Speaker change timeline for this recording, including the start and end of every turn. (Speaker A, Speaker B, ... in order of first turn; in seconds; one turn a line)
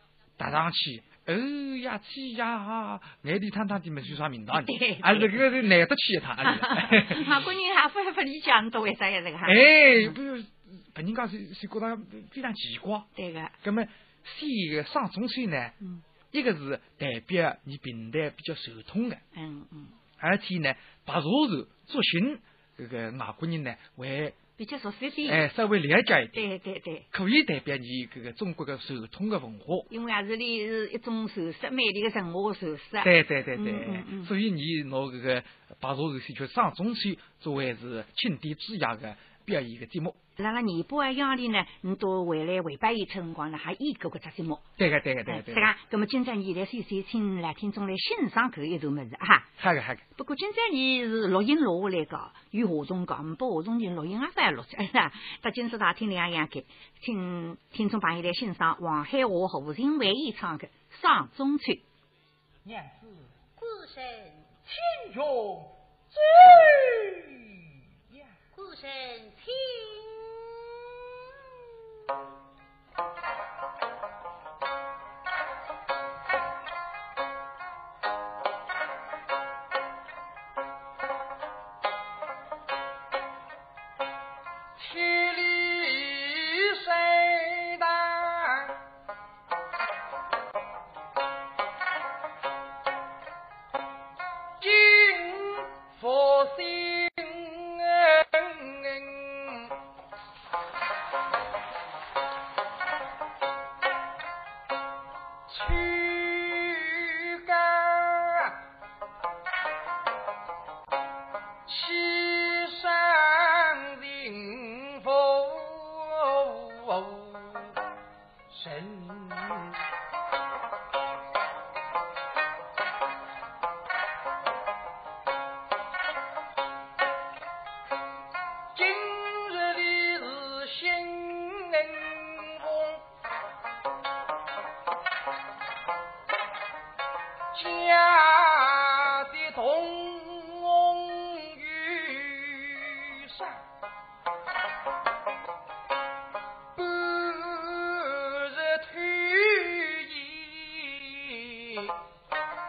Speaker A: 0.4-7.5
Speaker B: 4.5-5.5
Speaker B: 6.4-10.2
Speaker A: 9.4-13.1
Speaker B: 13.2-13.6
Speaker A: 13.6-15.8
Speaker A: 16.3-19.2
Speaker B: 19.3-20.0
Speaker A: 20.2-24.4
Speaker B: 24.6-25.4
Speaker A: 25.2-26.4
Speaker B: 26.3-27.1
Speaker A: 27.1-29.9
Speaker B: 29.9-34.3
Speaker A: 33.0-40.2
Speaker B: 40.4-44.7
Speaker A: 44.8-45.7
Speaker B: 45.3-49.5
Speaker A: 49.6-50.0
Speaker B: 50.2-61.9
Speaker C: 62.6-63.3
Speaker C: 64.7-68.3
Speaker C: 84.8-88.8
Speaker C: 94.6-99.7
Speaker C: 105.5-108.6
Speaker C: 111.7-117.8
Speaker C: 118.5-119.8
Speaker C: 128.7-133.0
Speaker C: 137.5-143.6
Speaker C: 146.8-151.9